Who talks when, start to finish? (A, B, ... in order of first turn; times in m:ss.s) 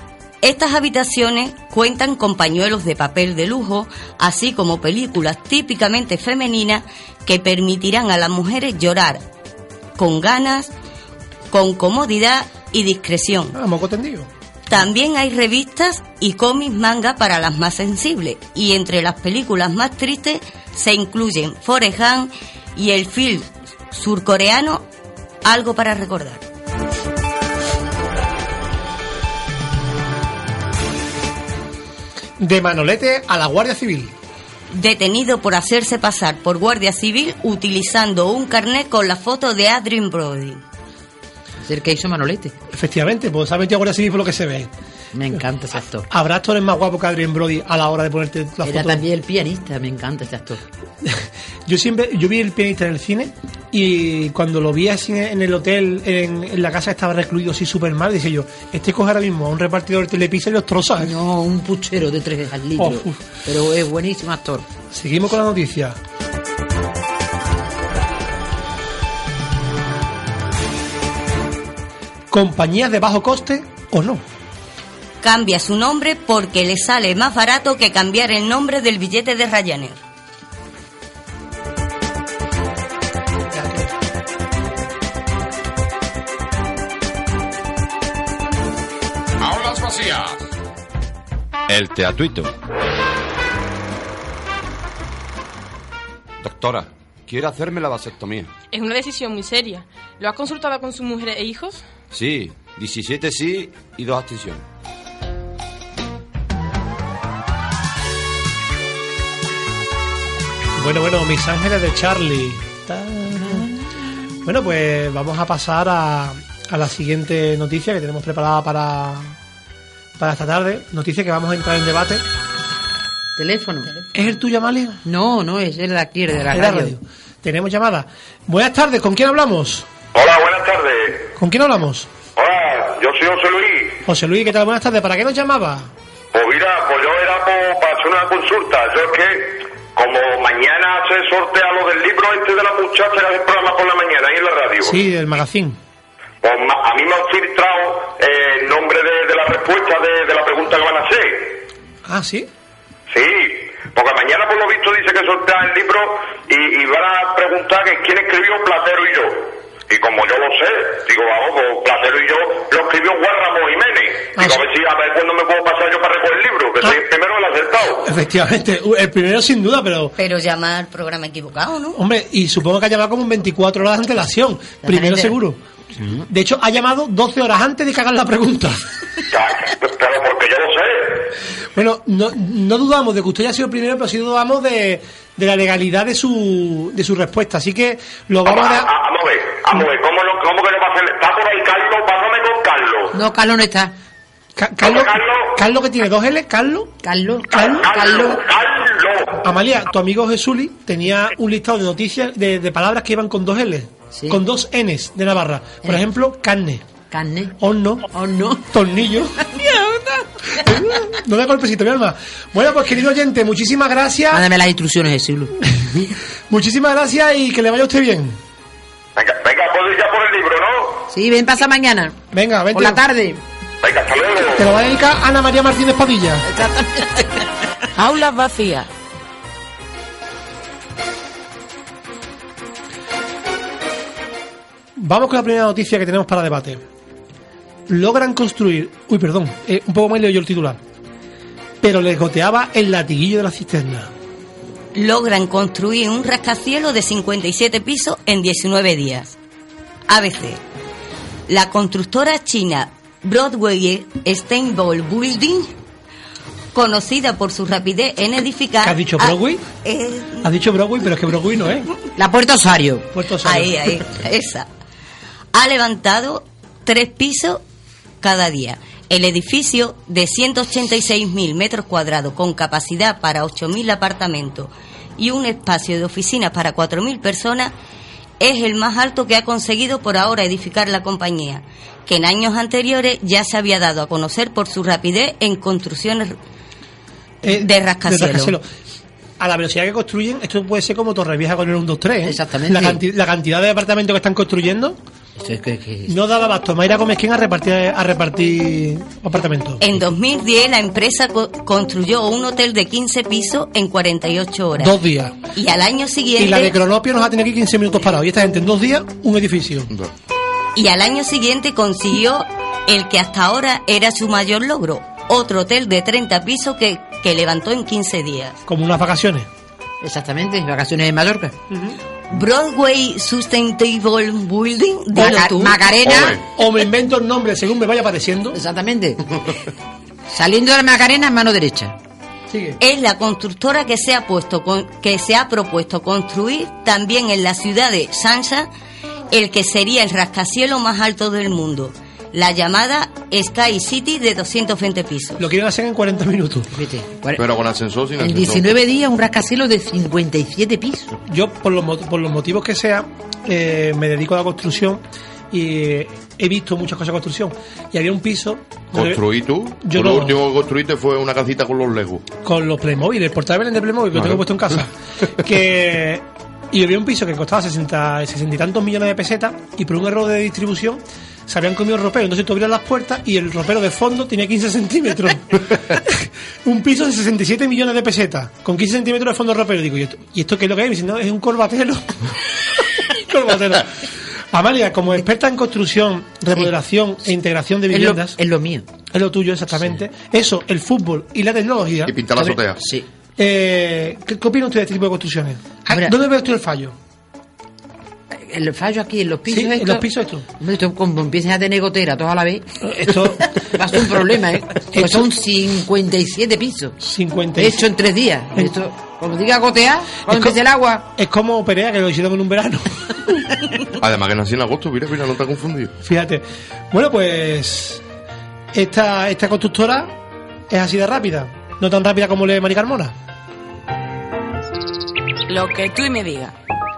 0:00.4-0:09.2 A
0:10.0-0:10.7 A
0:11.5-0:13.6 A
0:13.5-0:14.3 B
0:14.7-0:24.8 A
0:25.4-0:26.4 A
0:32.4-0:34.1 B
0:34.7-0:40.6 A
0:41.6-0:42.5 C
0:42.7-0:44.7 B
0:45.1-0:46.1 C
0:46.1-0:49.0 B
0:48.6-0:50.6 C
0:51.0-1:01.2 B
1:01.0-1:04.6 C
1:02.8-1:03.2 B
1:04.9-1:06.0 B
1:12.3-1:14.2 B
1:15.2-1:20.0 A
1:23.5-1:23.9 B
1:29.4-1:30.4 D
1:31.7-1:32.5 D
1:36.4-1:38.5 D
1:38.7-1:41.8 E
1:42.1-1:44.6 D
1:50.8-1:53.7 B
1:54.4-1:59.4 B
2:00.2-2:02.2 B
2:03.4-2:04.0 C
2:04.1-2:05.0 B
2:05.0-2:06.9 C
2:06.5-2:09.9 B
2:10.1-2:11.3 F
2:11.4-2:12.1 B
2:12.4-2:14.0 F
2:14.0-2:15.9 B
2:16.3-2:25.0 F
2:24.8-2:25.8 B
2:26.4-2:31.6 F
2:32.0-2:32.5 B
2:33.1-2:48.0 F
2:48.0-2:50.1 B
2:50.2-2:52.0 A
2:51.9-2:55.6 B
2:54.9-2:55.2 C
2:56.3-2:58.8 B
2:59.3-3:01.3 F
3:01.7-3:08.9 B
3:08.4-3:13.1 F
3:13.1-3:13.9 C
3:14.6-3:16.9 B
3:14.8-3:15.5 F
3:17.0-3:18.4 C
3:17.5-3:17.8 B
3:17.6-3:19.4 F
3:19.4-3:26.8 B
3:24.1-3:24.4 C
3:27.1-3:27.5 C
3:27.6-3:28.1 B
3:28.1-3:28.7 C
3:28.7-3:29.4 B
3:29.5-3:30.2 C
3:30.6-3:34.4 B
3:34.3-3:35.6 C
3:36.5-3:38.4 B
3:39.2-3:41.0 F
3:41.1-3:42.2 C
3:42.3-3:43.0 B
3:42.7-3:43.4 C
3:43.8-3:44.6 F
3:44.6-3:46.5 B
3:46.5-3:47.5 C
3:48.0-3:48.9 G
3:55.0-3:56.8 B
3:57.9-4:00.8 B
4:01.8-4:04.1 B
4:04.9-4:09.4 A
4:10.1-4:10.6 A
4:11.5-4:15.7 A
4:16.7-4:20.5 A
4:18.8-4:19.6 B
4:20.4-4:21.9 B
4:22.2-4:23.0 C
4:23.1-4:24.0 B
4:23.4-4:24.7 A
4:25.5-4:27.6 A
4:28.2-4:37.7 A
4:38.4-4:46.3 A
4:47.4-4:48.6 B
4:47.4-4:48.6 A
4:49.4-4:55.0 B
4:52.2-4:53.0 C
4:55.4-4:56.1 C
4:56.1-4:59.8 B
4:59.8-5:05.0 A
5:04.8-5:05.4 B
5:05.5-5:06.8 A
5:06.4-5:09.9 B
5:10.7-5:18.6 A
5:18.7-5:19.5 B
5:20.0-5:21.5 C
5:21.7-5:22.0 B
5:22.3-5:25.8 A
5:25.1-5:26.4 C
5:26.0-5:26.4 H
5:26.5-5:28.6 B
5:28.5-5:29.2 C
5:30.3-5:31.9 C
5:32.5-5:32.8 B
5:32.8-5:38.7 A
5:39.3-5:45.4 A
5:45.4-5:46.7 B
5:46.7-5:47.4 C
5:47.4-5:48.7 H
5:48.2-5:51.1 C
5:51.3-5:59.2 B
5:58.9-6:02.3 H
5:59.8-6:00.4 B
6:02.4-6:28.4 B
6:27.9-6:28.8 C
6:29.1-6:32.2 B
6:32.0-6:32.8 H
6:32.5-6:33.0 C
6:33.4-6:36.9 B
6:38.3-6:40.0 C
6:39.5-6:40.5 B
6:40.6-6:42.7 C
6:42.8-6:43.5 B
6:43.5-6:47.0 C
6:44.9-6:45.3 B
6:47.0-6:47.9 B
6:47.6-6:51.0 C
6:50.3-6:50.6 B
6:51.1-6:53.5 B
6:54.0-6:55.9 H
6:56.0-6:58.0 B
6:58.7-7:00.1 B
7:00.7-7:03.1 B
7:05.5-7:06.5 G